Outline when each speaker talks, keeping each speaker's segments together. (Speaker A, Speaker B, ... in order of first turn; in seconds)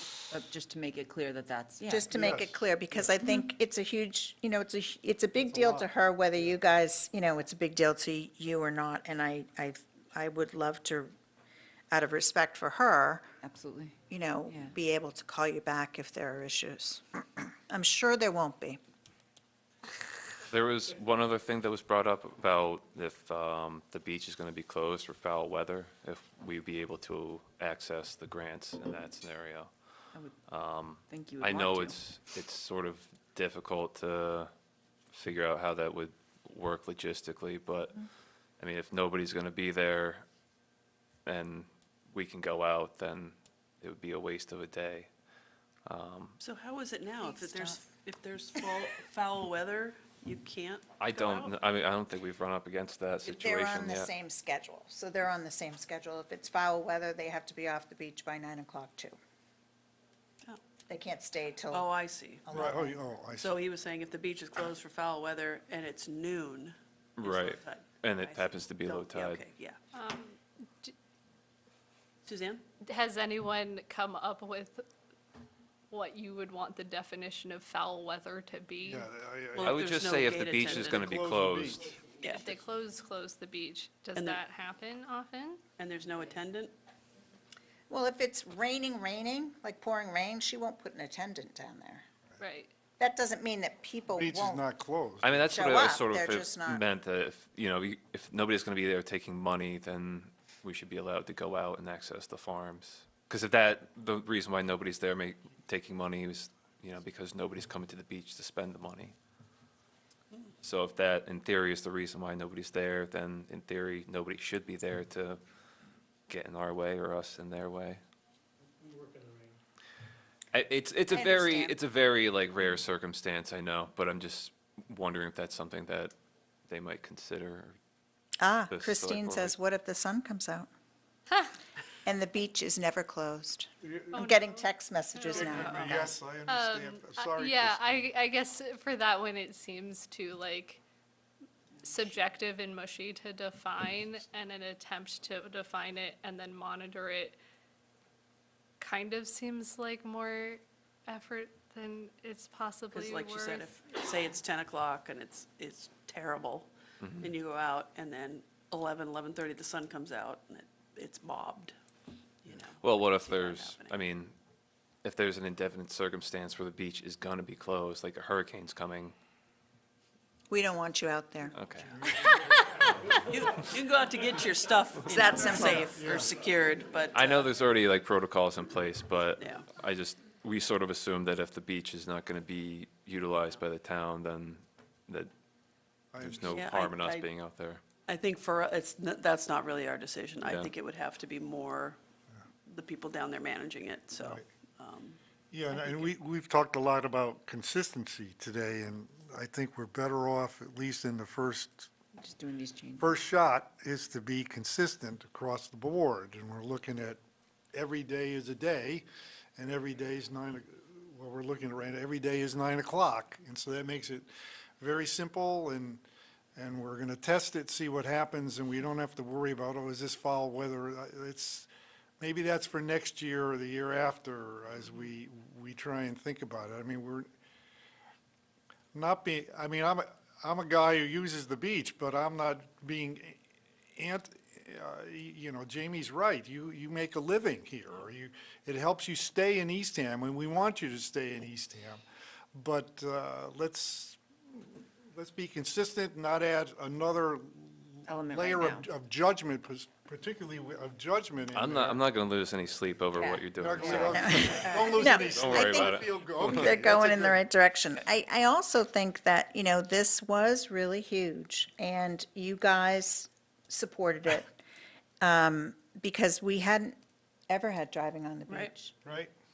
Speaker A: 0.3-2.2, 13.4-14.8, 31.1-32.0, 202.2-203.2, 248.2-248.9, 253.2-254.1
Speaker B: 1.9-11.1, 11.9-13.2, 14.1-17.0, 17.7-18.8, 47.2-47.8, 53.2-59.2, 60.9-61.9, 62.5-63.0, 87.9-92.0, 93.0-94.6, 95.5-96.8, 121.1-121.8, 128.4-130.7, 132.1-136.1, 170.5-171.6, 175.1-176.1, 254.0-264.5, 265.2-267.0, 267.5-268.9
Speaker C: 2.1-3.1, 5.5-5.9, 62.5-63.6, 78.8-79.8, 80.6-82.0, 94.1-95.5, 133.8-134.3, 135.3-138.1, 172.0-172.5, 175.9-176.3, 186.1-186.7, 194.2-194.5, 195.5-201.9, 203.0-207.2, 207.7-214.3, 214.8-216.0, 216.6-221.7, 222.2-227.3, 228.9-233.4, 234.0-242.0, 242.6-252.0, 253.5-257.4, 269.0-269.3
Speaker D: 20.5-29.8, 30.5-34.5, 35.1-38.0, 38.6-40.2, 41.3-45.1, 45.9-46.4, 51.0-54.1, 67.2-69.5, 79.6-81.9, 95.2-109.2, 110.6-115.4, 116.3-118.0, 120.5-126.1, 126.7-127.8, 128.7-129.6, 157.0-157.3, 162.8-164.4, 165.0-169.2, 171.6-172.0, 177.1-185.3, 186.2-187.8, 190.4-190.7, 251.5-256.8
Speaker E: 46.4-51.6, 61.7-62.7, 63.3-69.8, 72.3-72.6, 79.5-81.0, 82.2-82.5, 84.2-84.4, 85.8-86.7, 135.6-135.9, 152.9-156.7, 157.2-161.8, 162.4-164.0, 173.3-177.5, 179.4-179.7, 186.4-187.3, 188.1-192.0, 192.7-195.2, 195.7-196.2
Speaker F: 69.9-70.9, 72.8-74.8, 75.9-79.1, 82.2-85.6, 92.4-92.7, 134.1-135.6, 136.4-140.8, 141.8-147.4, 148.8-153.9